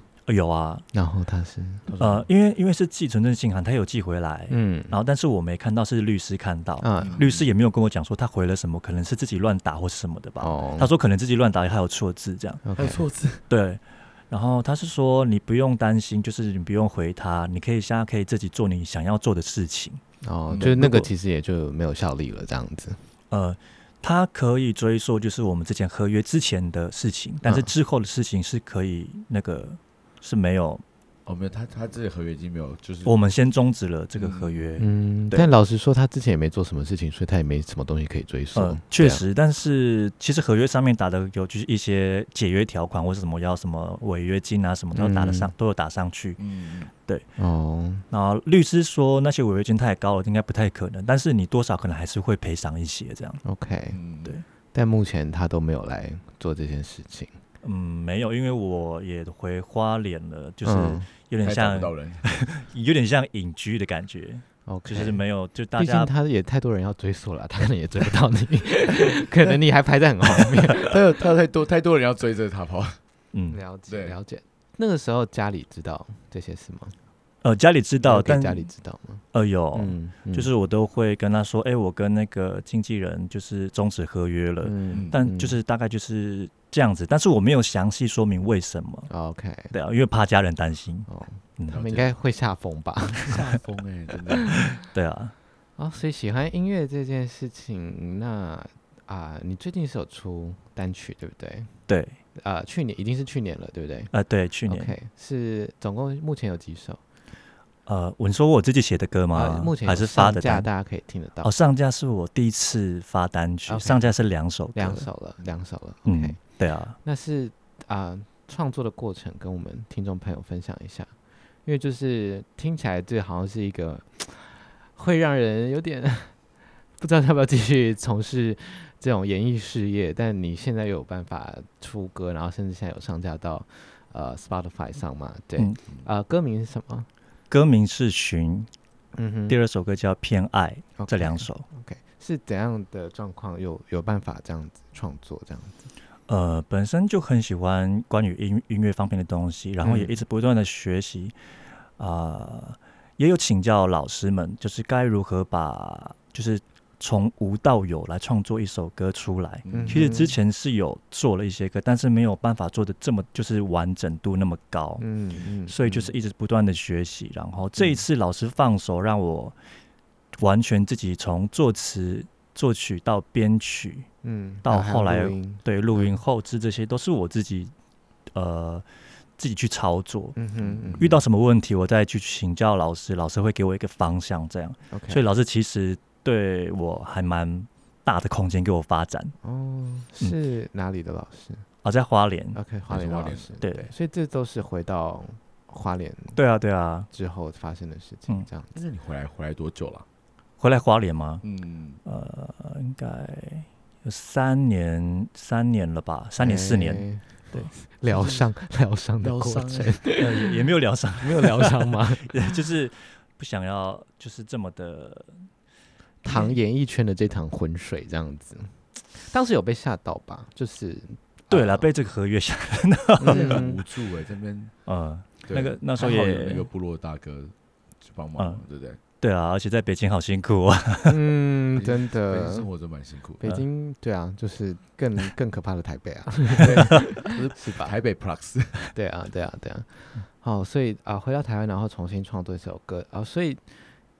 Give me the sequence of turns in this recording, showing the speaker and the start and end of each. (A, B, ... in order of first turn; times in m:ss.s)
0:00.3-0:00.8 A
0:00.9-0:01.8 B
0:01.9-0:02.3 C
0:02.0-0:12.6 A
0:04.5-0:05.0 B
0:06.8-0:07.2 B
0:07.0-0:07.4 C
0:10.4-0:10.9 B
0:12.6-0:13.0 B
0:12.8-0:13.4 C
0:13.5-0:20.0 A
0:20.2-0:23.0 B
0:20.5-0:20.7 C
0:20.6-0:21.1 A
0:23.3-0:30.8 A
0:27.4-0:27.7 B
0:31.2-0:33.1 C
0:33.0-0:35.5 A
0:34.2-0:34.7 C
0:34.8-0:39.2 B
0:38.5-0:46.4 A
0:44.9-0:45.5 B
0:46.4-0:46.9 C
0:47.4-0:48.0 B
0:48.1-0:53.4 A
0:53.4-0:54.0 B
0:53.9-0:54.4 C
0:54.7-0:57.3 B
0:57.6-1:06.1 A
1:00.6-1:01.1 B
1:01.4-1:02.2 C
1:04.6-1:05.2 B
1:05.8-1:11.0 B
1:10.7-1:13.0 C
1:13.3-1:13.6 A
1:13.5-1:16.9 B
1:13.9-1:14.2 C
1:17.4-1:18.7 A
1:18.0-1:19.2 B
1:19.3-1:29.1 A
1:19.7-1:20.5 B
1:24.6-1:25.6 B
1:24.9-1:25.2 C
1:29.1-1:29.7 B
1:29.7-1:31.8 A
1:31.1-1:33.4 B
1:31.7-1:32.1 C
1:33.2-1:34.6 C
1:34.8-1:35.3 A
1:35.8-1:41.7 B
1:41.9-1:42.2 A
1:42.3-1:44.1 B
1:44.1-1:44.9 A
1:44.7-1:47.0 B
1:47.8-1:50.7 A
1:49.3-1:51.5 B
1:51.4-1:55.1 A
1:53.7-1:54.0 B
1:54.7-1:56.4 B
1:56.0-1:57.0 A
1:57.0-2:01.1 B
2:01.6-2:06.3 B
2:07.0-2:17.1 B
2:17.5-2:18.7 A
2:19.1-2:19.5 B
2:19.5-2:21.6 A
2:21.0-2:25.9 B
2:26.3-2:31.3 A
2:29.8-2:30.2 B
2:32.0-2:45.0 A
2:39.6-2:40.1 C
2:39.7-2:40.4 B
2:45.0-2:46.1 B
2:45.7-2:49.6 A
2:50.4-2:54.1 A
2:54.2-2:56.2 B
2:54.6-2:57.7 A
2:58.3-2:58.8 A
2:59.4-3:00.4 A
3:00.4-3:01.2 B
3:00.6-3:01.1 C
3:01.0-3:09.3 A
3:04.9-3:05.2 B
3:09.4-3:11.6 B
3:11.8-3:12.6 A
3:12.5-3:16.4 B
3:12.9-3:13.5 C
3:13.6-3:13.9 A
3:16.3-3:17.1 A
3:17.1-3:18.7 B
3:18.7-3:20.0 C
3:20.6-3:21.4 A
3:21.4-3:22.0 C
3:22.0-3:27.7 A
3:26.4-3:30.5 B
3:28.1-3:28.5 C
3:29.2-3:30.0 C
3:30.2-3:35.3 A
3:31.2-3:32.4 B
3:36.2-3:41.9 B
3:36.2-3:36.6 A
3:41.5-3:43.6 A
3:43.2-3:43.8 B
3:43.2-3:44.7 C
3:44.8-3:46.7 A
3:45.5-3:49.0 C
3:49.2-3:51.2 A
3:51.0-3:52.7 B
3:51.8-3:53.4 C
3:53.4-3:57.9 B
3:56.6-3:58.9 C
3:58.9-4:03.7 B